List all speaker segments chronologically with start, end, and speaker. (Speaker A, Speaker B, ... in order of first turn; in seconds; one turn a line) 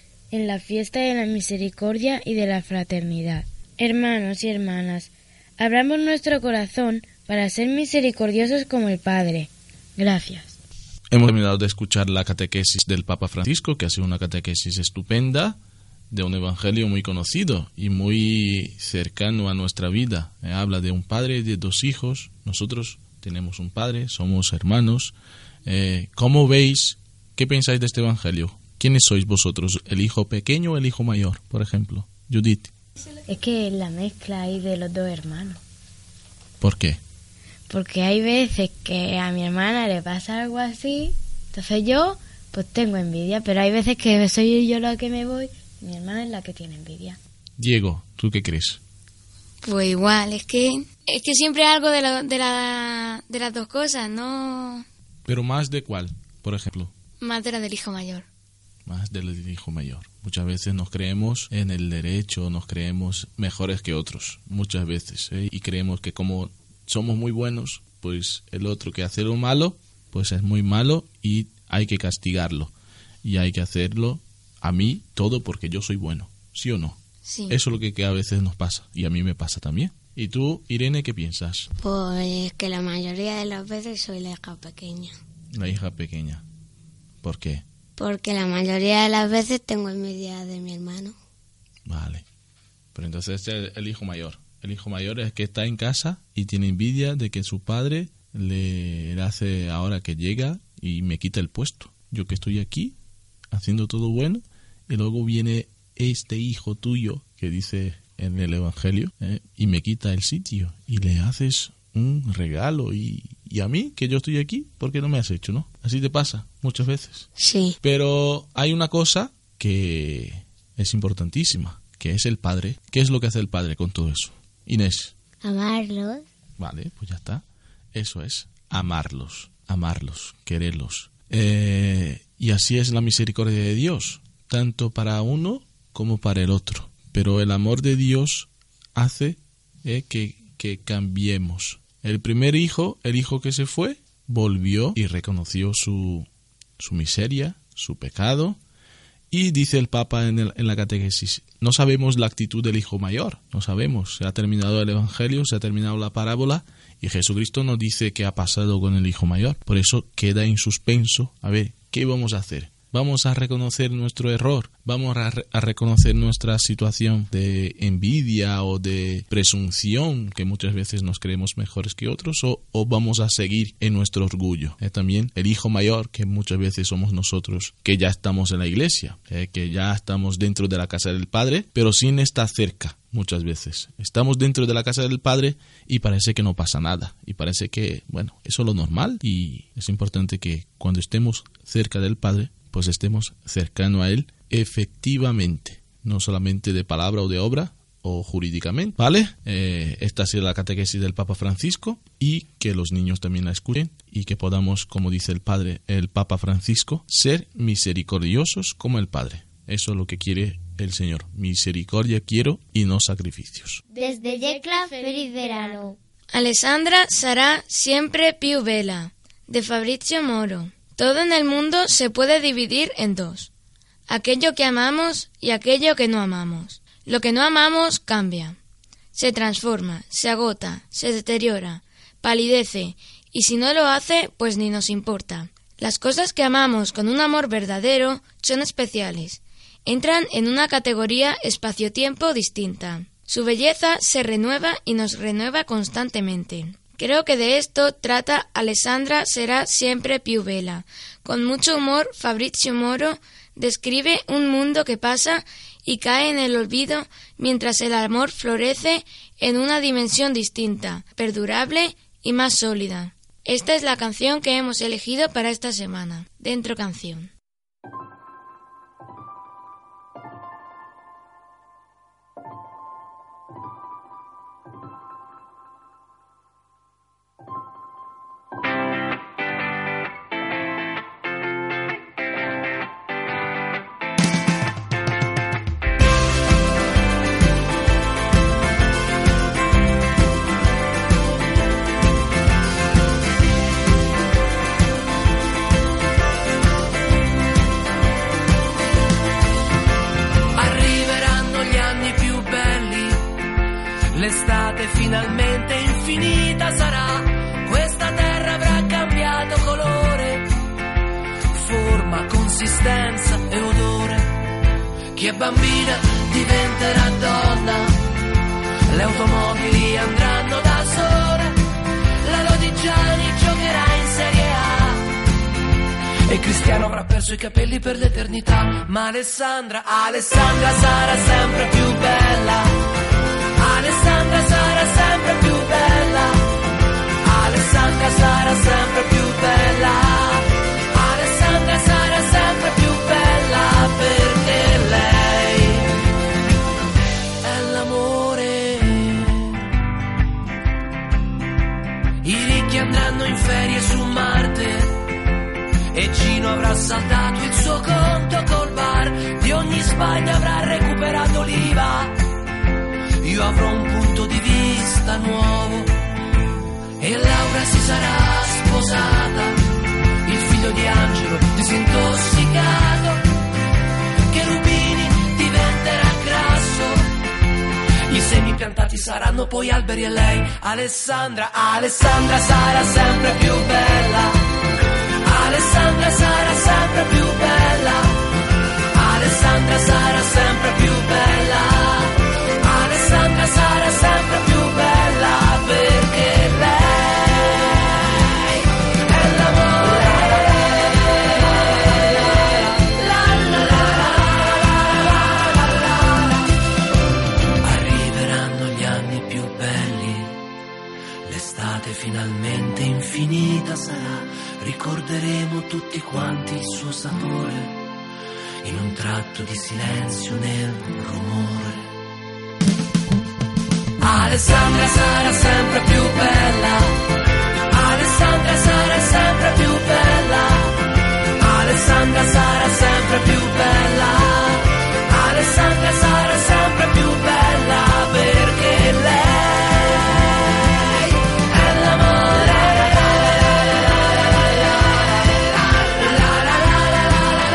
Speaker A: 0.3-10.6
Speaker B: 11.1-15.6
Speaker B: 16.1-25.1
Speaker B: 25.6-32.7
Speaker A: 33.3-35.6
Speaker B: 36.6-37.0
Speaker A: 37.7-47.2
Speaker B: 47.6-48.8
Speaker C: 49.6-54.9
Speaker B: 55.2-56.9
Speaker C: 57.2-58.2
Speaker B: 58.9-72.7
Speaker B: 73.2-77.0
Speaker C: 77.2-77.5
Speaker B: 77.5-81.7
Speaker D: 81.8-85.1
Speaker B: 85.5-86.4
Speaker B: 87.2-87.6
Speaker D: 88.0-91.1
Speaker B: 91.8-92.2
Speaker B: 92.9-103.0
Speaker B: 103.5-117.3
Speaker D: 117.4-117.8
Speaker B: 117.8-125.1
Speaker E: 125.4-126.2
Speaker B: 126.6-146.3
Speaker B: 146.8-148.6
Speaker B: 149.3-213.8
Speaker A: 213.9-215.8
Speaker E: 214.0-216.0
Speaker C: 216.3-223.5
Speaker C: 224.1-228.6
Speaker C: 229.1-267.3
Speaker F: 300.5-303.3
Speaker F: 304.1-310.5
Speaker F: 311.5-314.3
Speaker F: 315.1-318.0
Speaker F: 318.9-321.6
Speaker F: 322.2-325.1
Speaker F: 326.3-332.8
Speaker F: 333.6-336.4
Speaker F: 337.2-346.0
Speaker F: 347.4-349.4
Speaker F: 352.2-355.0
Speaker F: 355.9-362.2
Speaker F: 363.2-365.9
Speaker F: 367.0-369.6
Speaker F: 370.2-373.2
Speaker F: 374.3-377.0
Speaker F: 378.1-384.4
Speaker F: 385.2-388.2
Speaker F: 388.9-398.3
Speaker F: 399.1-400.8
Speaker F: 401.8-404.7
Speaker F: 405.5-406.2
Speaker F: 407.6-410.4
Speaker F: 411.2-417.8
Speaker F: 418.6-421.9
Speaker F: 424.0-427.0
Speaker F: 427.7-430.8
Speaker F: 431.4-440.3
Speaker F: 441.5-443.9
Speaker F: 446.0-447.1